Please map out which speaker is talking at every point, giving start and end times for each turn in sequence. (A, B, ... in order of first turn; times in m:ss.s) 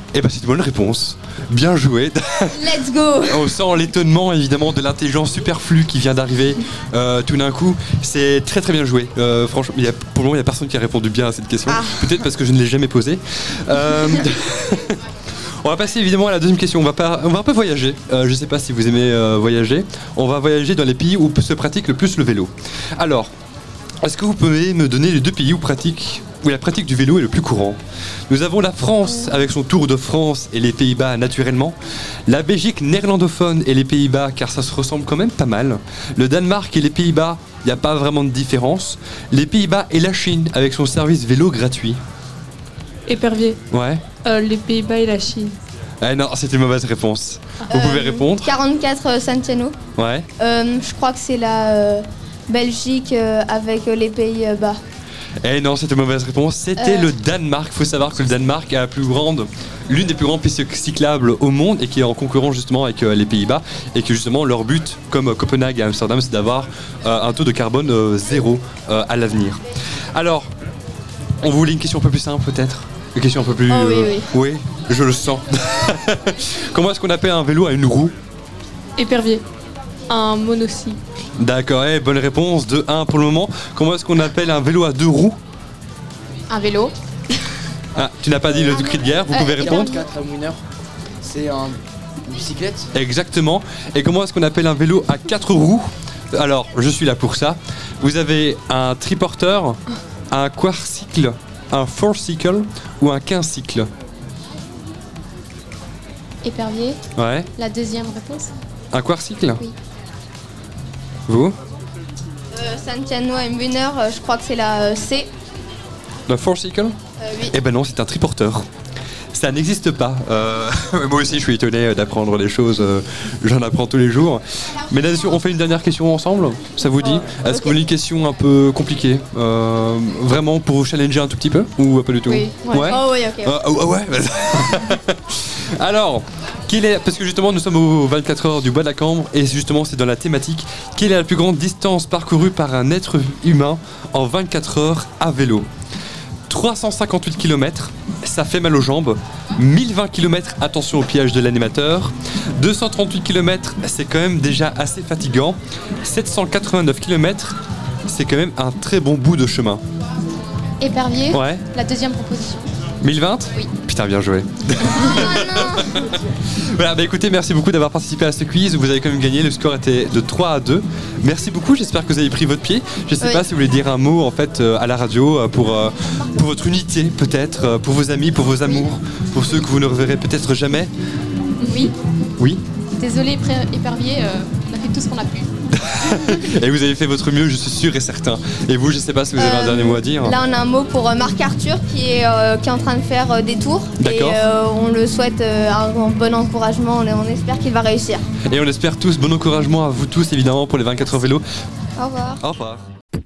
0:00.1-0:15.0 A
0:02.5-0:03.6 B
0:11.7-0:12.0 B
0:15.6-0:23.3 A
0:24.0-0:31.8 A
0:32.3-0:42.0 A
0:43.1-0:43.6 C
0:43.7-0:44.0 A
0:44.2-0:45.6 C
0:46.0-0:48.5 A
0:47.7-0:49.8 B
0:50.0-0:50.3 A
0:50.4-0:54.8 B
0:55.4-1:09.6 A
0:56.8-0:57.1 B
1:10.1-1:10.5 A
1:11.4-1:18.1 A
1:13.7-1:14.3 B
1:19.0-1:19.4 C
1:20.1-1:21.0 C
1:21.4-1:25.4 A
1:26.5-1:27.0 D
1:28.0-1:29.9 A
1:28.0-1:29.0 E
1:28.7-1:30.0 B
1:29.5-1:30.6 E
1:31.2-1:32.9 E
1:32.9-1:39.8 A
1:40.3-1:43.9 A
1:46.4-1:47.0 D
1:47.2-1:47.5 A
1:47.6-1:48.5 D
1:48.9-1:49.6 A
1:51.3-1:51.6 A
1:52.5-1:55.3 B
1:56.3-1:57.0 A
1:57.2-1:57.6 B
1:57.5-1:58.7 A
1:59.3-2:25.7 A
2:07.0-2:07.8 B
2:12.4-2:13.0 D
2:12.8-2:13.6 B
2:26.5-2:39.8 A
2:40.8-2:42.7 D
2:41.3-2:41.6 A
2:43.0-3:00.9 A
2:44.8-2:46.0 B
3:01.6-3:01.9 D
3:02.4-3:02.6 A
3:03.0-3:05.5 D
3:05.7-3:10.4 A
3:09.4-3:18.2 B
3:14.0-3:14.4 A
3:18.5-3:21.4 A
3:22.0-3:22.4 B
3:22.4-3:22.8 A